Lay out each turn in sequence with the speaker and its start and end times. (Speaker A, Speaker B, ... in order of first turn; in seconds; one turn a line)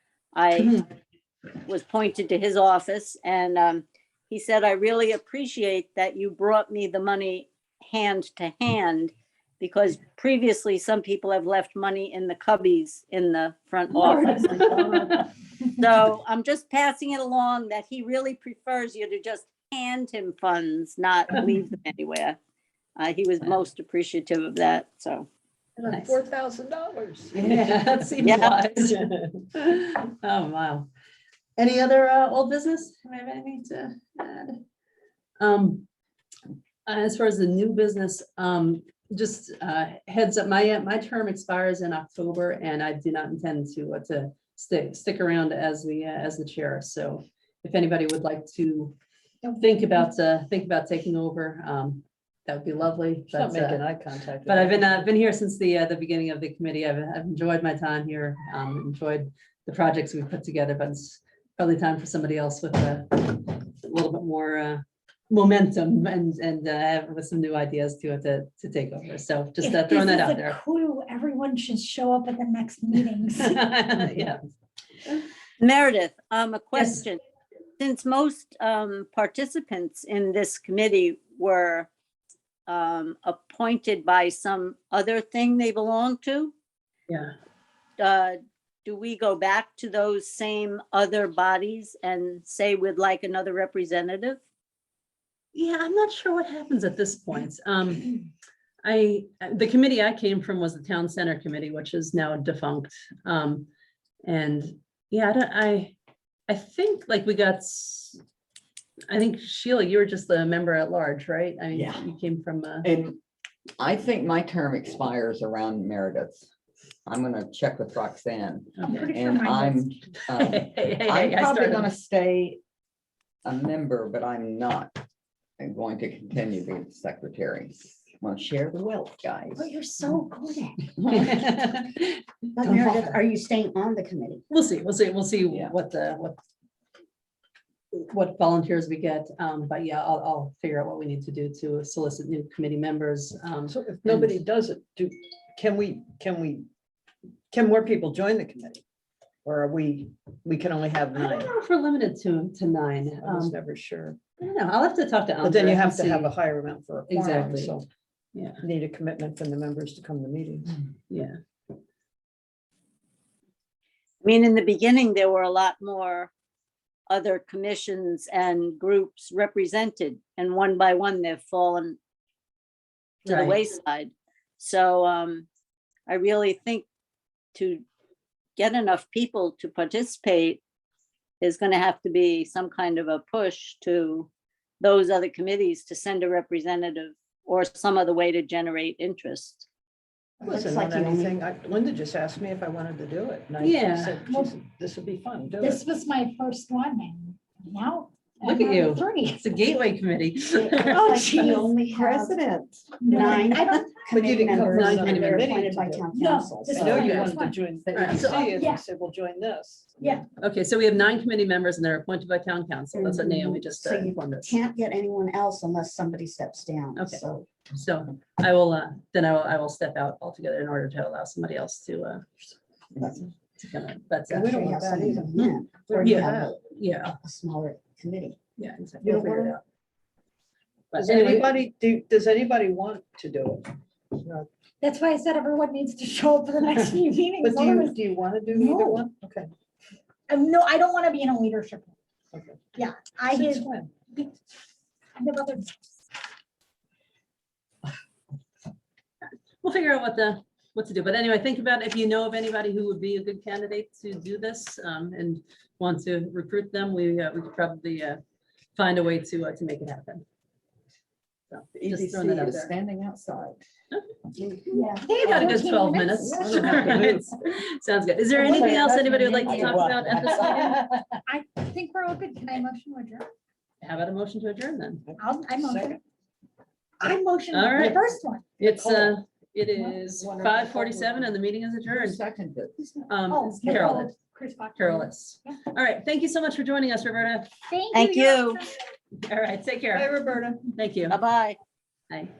Speaker A: 0.3-0.8
Speaker A: 1.7-14.7
Speaker B: 14.0-15.2
Speaker A: 15.7-22.4
Speaker A: 23.0-25.3
Speaker C: 25.8-28.1
Speaker B: 25.9-26.2
Speaker B: 27.3-30.9
Speaker A: 28.2-28.5
Speaker C: 28.8-29.2
Speaker B: 31.6-34.6
Speaker B: 35.4-35.9
Speaker B: 36.9-49.0
Speaker D: 49.4-50.1
Speaker B: 49.6-53.8
Speaker C: 53.3-55.1
Speaker B: 54.4-70.6
Speaker D: 69.6-73.6
Speaker B: 73.4-74.4
Speaker A: 75.6-77.2
Speaker B: 76.7-77.0
Speaker A: 77.8-81.9
Speaker A: 82.7-86.5
Speaker B: 87.1-87.3
Speaker A: 88.0-94.4
Speaker B: 95.5-98.1
Speaker B: 98.8-103.7
Speaker B: 104.2-105.9
Speaker B: 106.5-108.2
Speaker B: 109.1-112.9
Speaker E: 111.7-112.0
Speaker E: 112.8-113.2
Speaker E: 113.8-116.5
Speaker E: 117.0-122.6
Speaker B: 118.8-119.1
Speaker D: 118.8-119.8
Speaker B: 120.3-121.9
Speaker E: 123.4-124.9
Speaker E: 125.6-129.7
Speaker F: 129.6-131.2
Speaker B: 131.1-133.2
Speaker F: 132.6-134.4
Speaker B: 134.5-136.3
Speaker B: 138.1-144.4
Speaker C: 143.7-146.7
Speaker C: 147.5-148.8
Speaker C: 149.4-151.5
Speaker B: 151.1-153.6
Speaker C: 153.2-154.2
Speaker B: 154.4-156.3
Speaker C: 155.4-157.9
Speaker B: 157.1-157.8
Speaker B: 158.3-158.6
Speaker C: 158.6-160.8
Speaker B: 161.1-161.4
Speaker A: 164.2-166.3
Speaker A: 167.1-172.0
Speaker B: 173.2-173.6
Speaker A: 173.2-175.5
Speaker A: 176.1-176.8
Speaker A: 177.5-177.8
Speaker A: 178.6-180.6
Speaker A: 181.4-184.3
Speaker A: 184.8-189.7
Speaker C: 190.4-195.8
Speaker F: 190.4-191.3
Speaker B: 193.6-194.2
Speaker D: 194.2-194.5
Speaker D: 195.6-199.5
Speaker B: 198.4-201.2
Speaker F: 200.5-202.4
Speaker D: 200.8-202.1
Speaker C: 202.2-210.2
Speaker D: 203.0-204.8
Speaker F: 203.1-207.3
Speaker B: 204.7-205.6
Speaker D: 206.1-207.6
Speaker B: 206.8-207.3
Speaker B: 207.9-208.5
Speaker D: 208.2-208.8
Speaker D: 210.0-210.2
Speaker B: 210.4-214.6
Speaker F: 212.9-217.5
Speaker B: 216.9-224.6
Speaker C: 224.3-226.5
Speaker F: 224.4-226.6
Speaker B: 225.4-227.2
Speaker F: 227.2-228.4
Speaker B: 228.6-229.6
Speaker C: 229.0-229.6
Speaker F: 229.0-229.5
Speaker B: 230.9-231.5
Speaker C: 230.9-234.5
Speaker D: 234.8-238.0
Speaker C: 237.4-239.5
Speaker D: 238.5-239.1
Speaker D: 240.3-241.9
Speaker C: 242.3-242.7
Speaker D: 242.7-244.3
Speaker C: 243.3-243.9
Speaker D: 245.2-245.7
Speaker B: 249.6-258.2
Speaker B: 258.8-260.2
Speaker B: 261.5-262.7
Speaker E: 261.8-263.6
Speaker F: 264.4-265.4
Speaker D: 264.7-266.9
Speaker B: 265.1-270.8
Speaker C: 266.3-267.2
Speaker E: 266.6-267.1
Speaker C: 268.4-270.9
Speaker E: 268.4-270.3
Speaker D: 271.3-273.3
Speaker B: 273.8-275.1
Speaker C: 275.1-276.0
Speaker D: 275.2-276.0
Speaker D: 277.0-278.6
Speaker B: 277.5-278.0
Speaker B: 278.6-282.2
Speaker C: 278.6-279.1
Speaker C: 280.1-281.2
Speaker E: 281.9-283.1
Speaker B: 283.1-284.1
Speaker D: 283.3-285.6
Speaker B: 284.8-287.5
Speaker D: 287.7-288.8
Speaker A: 287.9-288.6
Speaker B: 289.2-290.2
Speaker C: 289.9-290.7
Speaker B: 290.7-291.2
Speaker A: 291.1-291.6